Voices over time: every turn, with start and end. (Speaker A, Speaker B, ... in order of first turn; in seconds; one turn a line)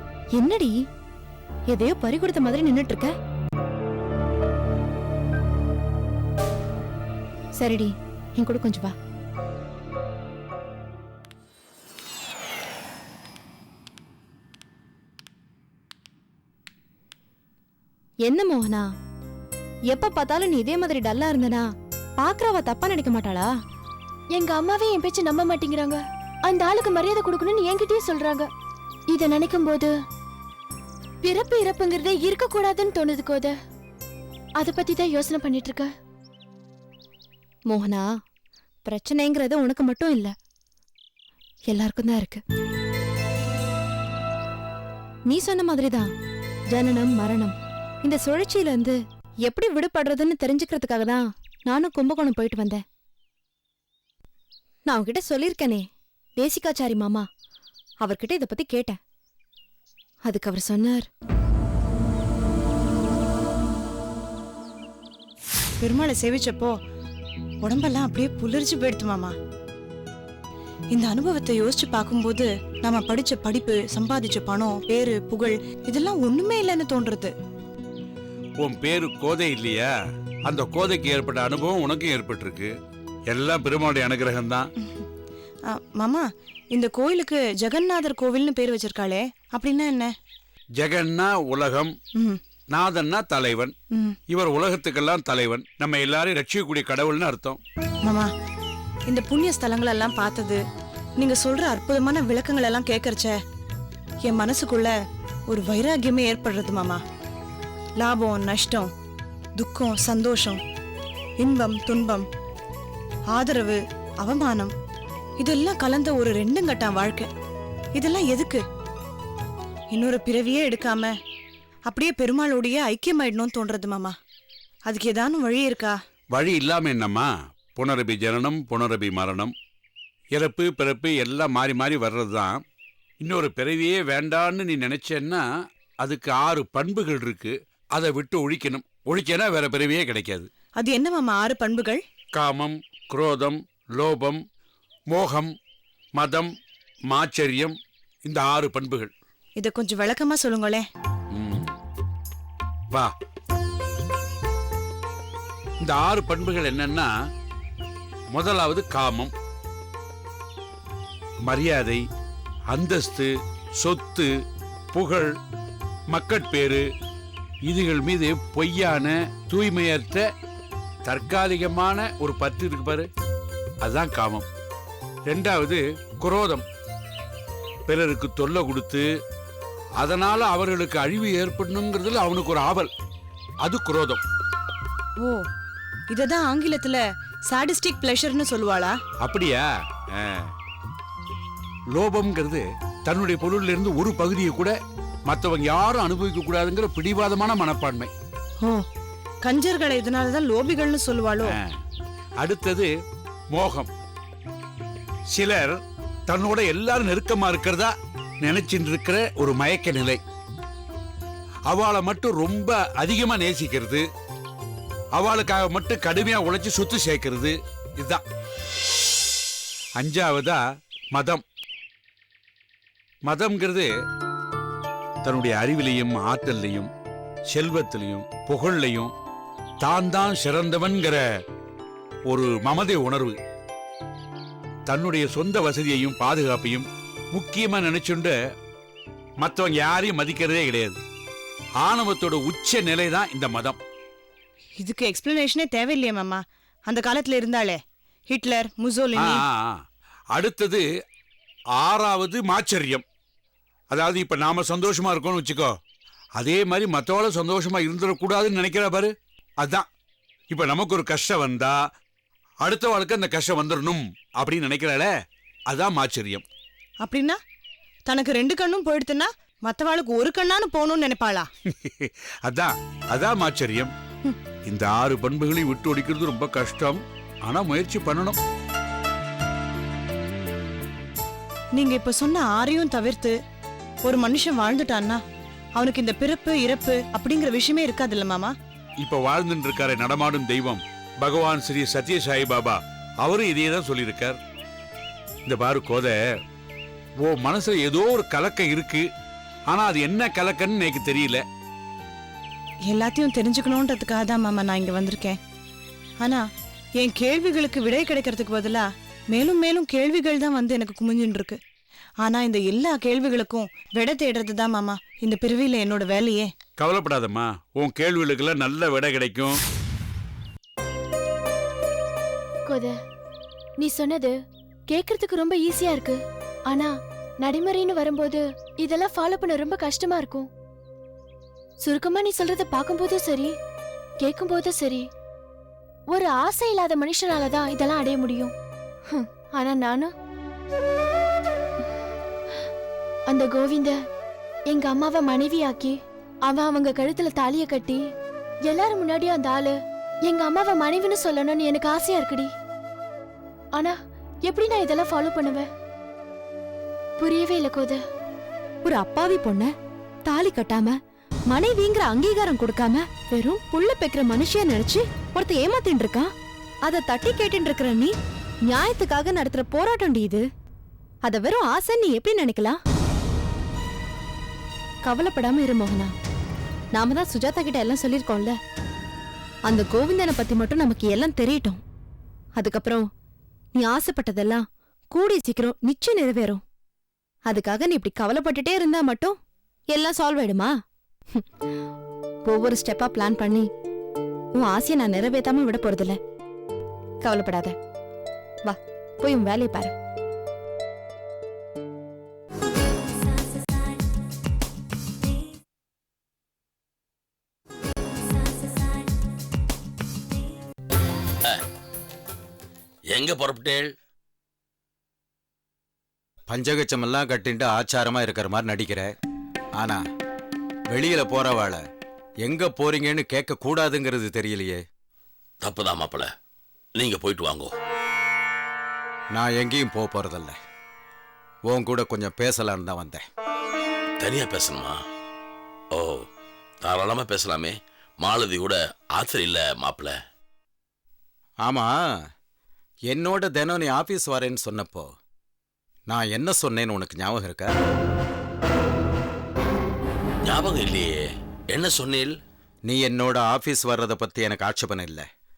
Speaker A: 0.3-0.8
Speaker A: 1.7-3.1
Speaker A: 7.6-8.9
Speaker A: 18.2-18.9
Speaker A: 19.9-21.6
Speaker A: 22.2-23.5
Speaker B: 24.3-28.5
Speaker B: 29.1-29.9
Speaker B: 31.2-33.5
Speaker B: 34.6-35.9
Speaker A: 37.7-38.1
Speaker A: 38.9-40.3
Speaker A: 41.7-42.4
Speaker A: 45.3-46.1
Speaker A: 46.7-52.8
Speaker A: 54.9-55.9
Speaker A: 56.4-57.2
Speaker A: 58.0-59.0
Speaker A: 60.2-61.1
Speaker C: 65.8-66.8
Speaker C: 67.6-69.3
Speaker C: 70.9-77.3
Speaker D: 78.6-79.9
Speaker D: 80.5-82.7
Speaker D: 83.3-84.7
Speaker C: 84.8-85.0
Speaker C: 85.7-90.1
Speaker D: 90.8-91.9
Speaker D: 92.7-93.7
Speaker D: 94.3-97.6
Speaker C: 98.0-98.3
Speaker C: 99.1-100.6
Speaker C: 101.2-103.3
Speaker C: 104.2-104.9
Speaker C: 105.5-107.0
Speaker C: 108.0-108.9
Speaker C: 109.5-110.6
Speaker C: 111.4-112.3
Speaker C: 113.3-114.7
Speaker C: 115.4-117.3
Speaker C: 117.9-118.6
Speaker C: 119.9-121.1
Speaker C: 121.8-124.1
Speaker C: 124.8-126.0
Speaker D: 126.3-129.5
Speaker D: 130.3-132.6
Speaker D: 133.2-135.4
Speaker D: 136.0-140.5
Speaker C: 140.7-142.0
Speaker D: 142.3-144.4
Speaker D: 145.1-145.5
Speaker D: 146.1-146.5
Speaker D: 147.1-149.1
Speaker C: 149.6-150.8
Speaker D: 151.3-151.7
Speaker D: 155.8-157.1
Speaker D: 158.3-159.3
Speaker D: 161.4-162.0
Speaker D: 162.7-164.3
Speaker D: 164.9-165.3
Speaker D: 166.1-166.8
Speaker D: 167.6-170.2
Speaker D: 171.0-173.1
Speaker D: 173.8-174.5
Speaker D: 175.2-176.6
Speaker D: 177.9-179.1
Speaker D: 180.0-182.9
Speaker D: 183.6-184.2
Speaker C: 185.2-185.5
Speaker C: 186.1-189.0
Speaker D: 189.2-190.5
Speaker D: 191.9-194.8
Speaker D: 195.3-198.1
Speaker C: 198.6-198.8
Speaker C: 199.4-201.5
Speaker D: 202.4-202.9
Speaker D: 203.5-203.9
Speaker D: 205.3-210.2
Speaker D: 211.7-214.0
Speaker D: 215.1-218.2
Speaker D: 219.9-220.6
Speaker D: 221.1-221.4
Speaker D: 223.2-223.9
Speaker D: 225.2-226.9
Speaker D: 227.5-229.1
Speaker D: 229.8-231.2
Speaker D: 232.2-233.4
Speaker D: 234.9-238.3
Speaker D: 239.4-241.0
Speaker D: 241.8-243.8
Speaker C: 244.8-249.4
Speaker D: 249.2-249.8
Speaker D: 250.3-250.8
Speaker D: 251.8-253.0
Speaker D: 253.9-255.7
Speaker D: 256.4-259.9
Speaker D: 260.5-261.8
Speaker D: 262.6-265.1
Speaker D: 265.7-266.4
Speaker C: 267.0-267.4
Speaker C: 268.1-271.5
Speaker D: 271.7-273.9
Speaker D: 274.6-278.4
Speaker C: 281.7-283.4
Speaker C: 284.0-285.2
Speaker C: 285.7-288.6
Speaker D: 289.0-294.4
Speaker D: 295.4-296.1
Speaker D: 297.2-299.1
Speaker D: 299.7-301.4
Speaker C: 302.9-305.4
Speaker C: 306.2-311.6
Speaker C: 312.2-316.5
Speaker D: 316.8-319.6
Speaker B: 322.6-322.9
Speaker B: 323.8-324.3
Speaker B: 324.9-330.5
Speaker B: 331.8-333.5
Speaker B: 334.2-335.1
Speaker B: 336.1-338.5
Speaker B: 339.1-340.1
Speaker B: 343.3-344.0
Speaker B: 344.7-348.0
Speaker B: 348.6-352.5
Speaker B: 353.7-355.7
Speaker B: 357.2-358.0
Speaker A: 358.8-359.7
Speaker A: 360.2-360.9
Speaker A: 361.5-366.3
Speaker A: 366.8-368.1
Speaker A: 368.7-370.4
Speaker A: 371.2-372.8
Speaker A: 375.0-376.1
Speaker A: 376.9-378.6
Speaker A: 379.6-381.8
Speaker A: 382.6-383.1
Speaker A: 383.8-386.6
Speaker A: 387.4-389.4
Speaker A: 389.9-390.7
Speaker A: 392.4-393.7
Speaker A: 394.6-396.2
Speaker A: 397.2-397.7
Speaker A: 398.6-399.9
Speaker E: 413.1-413.9
Speaker F: 416.5-419.1
Speaker F: 420.9-421.8
Speaker F: 422.4-424.8
Speaker E: 425.6-426.3
Speaker E: 427.0-427.7
Speaker F: 429.3-430.5
Speaker F: 431.7-433.2
Speaker E: 434.2-435.0
Speaker E: 435.9-436.2
Speaker E: 436.8-440.1
Speaker F: 441.6-441.9
Speaker F: 443.1-445.1
Speaker F: 446.1-447.7
Speaker E: 450.4-451.2
Speaker E: 451.7-452.3
Speaker F: 452.9-455.2